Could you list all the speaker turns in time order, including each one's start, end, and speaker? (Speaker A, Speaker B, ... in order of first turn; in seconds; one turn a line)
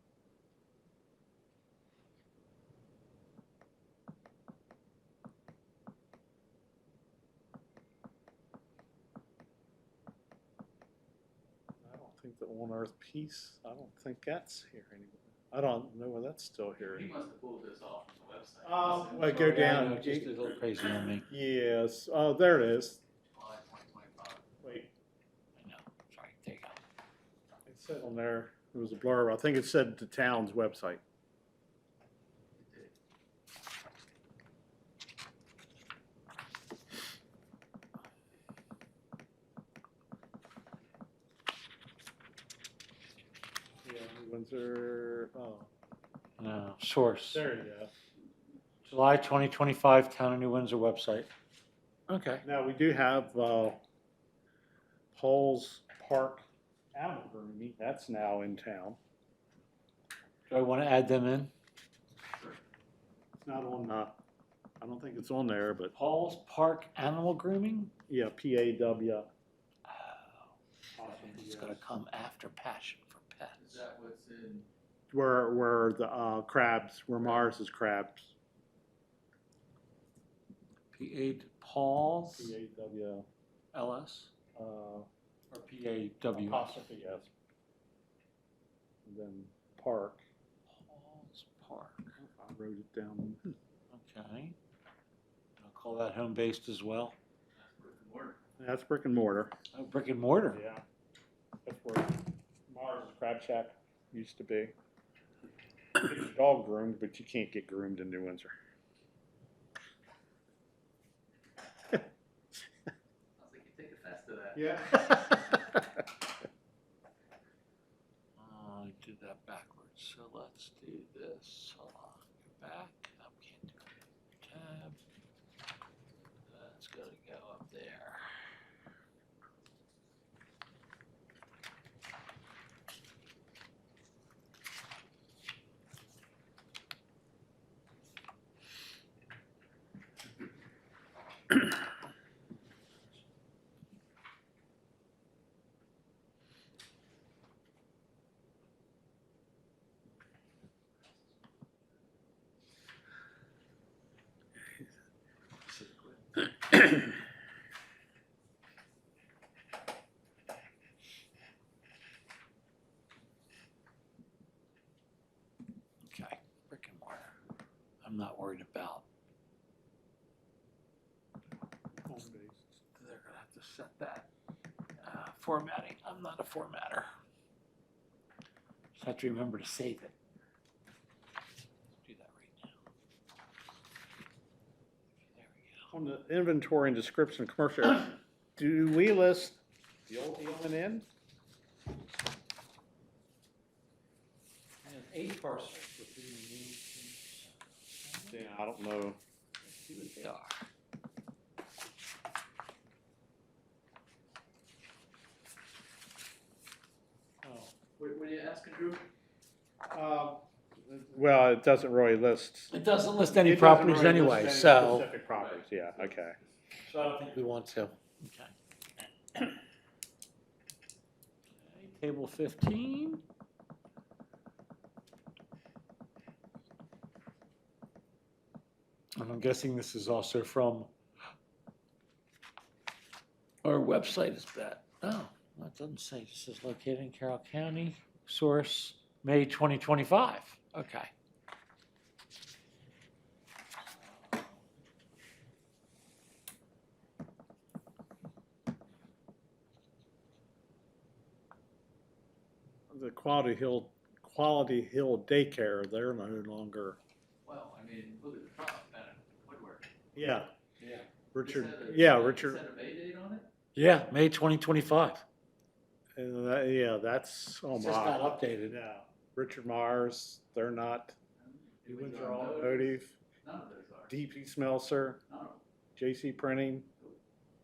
Speaker A: 11.8-17.1
Speaker B: 16.8-19.3
Speaker A: 18.6-20.5
Speaker C: 19.2-21.3
Speaker A: 21.3-23.0
Speaker B: 23.3-24.5
Speaker A: 24.6-24.9
Speaker C: 25.6-26.8
Speaker A: 27.7-31.0
Speaker B: 32.6-32.9
Speaker A: 43.8-45.7
Speaker C: 46.4-47.4
Speaker A: 47.3-47.9
Speaker C: 48.9-51.3
Speaker C: 52.1-52.5
Speaker A: 52.4-53.8
Speaker A: 55.1-59.0
Speaker C: 60.5-61.5
Speaker A: 63.4-64.2
Speaker A: 64.8-65.9
Speaker C: 65.9-67.9
Speaker A: 68.1-69.3
Speaker C: 69.9-73.8
Speaker A: 71.0-71.8
Speaker B: 73.6-74.7
Speaker A: 75.1-78.3
Speaker C: 80.9-82.6
Speaker A: 82.3-83.3
Speaker C: 83.7-84.3
Speaker A: 84.5-85.1
Speaker C: 85.5-86.8
Speaker A: 86.3-87.3
Speaker A: 89.1-90.2
Speaker C: 90.7-92.1
Speaker A: 92.2-93.5
Speaker C: 93.9-94.6
Speaker C: 95.6-97.2
Speaker B: 97.6-98.4
Speaker A: 98.6-99.5
Speaker C: 99.7-100.6
Speaker A: 100.5-100.8
Speaker A: 101.7-104.7
Speaker A: 106.0-108.5
Speaker B: 113.4-115.0
Speaker A: 114.5-115.6
Speaker C: 118.4-123.9
Speaker C: 124.4-125.0
Speaker C: 126.5-128.6
Speaker C: 155.6-156.4
Speaker C: 166.1-167.4
Speaker C: 168.0-169.1
Speaker A: 172.1-172.7
Speaker C: 172.9-174.3
Speaker C: 175.0-177.1
Speaker C: 178.9-180.2
Speaker C: 182.0-182.8
Speaker C: 185.2-185.9
Speaker A: 185.9-191.1
Speaker C: 194.8-198.4
Speaker A: 198.3-199.2
Speaker C: 199.6-200.7
Speaker C: 207.4-207.7
Speaker B: 208.0-209.1
Speaker A: 209.9-212.7
Speaker C: 212.7-215.1
Speaker A: 213.3-216.4
Speaker B: 215.3-216.8
Speaker C: 216.8-218.5
Speaker C: 221.6-223.2
Speaker C: 229.2-230.9
Speaker C: 233.6-241.1
Speaker C: 243.9-244.6
Speaker A: 252.9-257.0
Speaker B: 257.4-260.0
Speaker A: 260.1-260.5
Speaker C: 260.8-261.1
Speaker A: 261.3-262.6
Speaker B: 261.4-263.5
Speaker C: 263.8-265.2
Speaker A: 266.2-271.2
Speaker C: 267.7-268.8
Speaker B: 271.4-274.1
Speaker A: 271.9-273.2
Speaker A: 274.1-275.2
Speaker B: 275.3-275.6
Speaker A: 276.0-276.9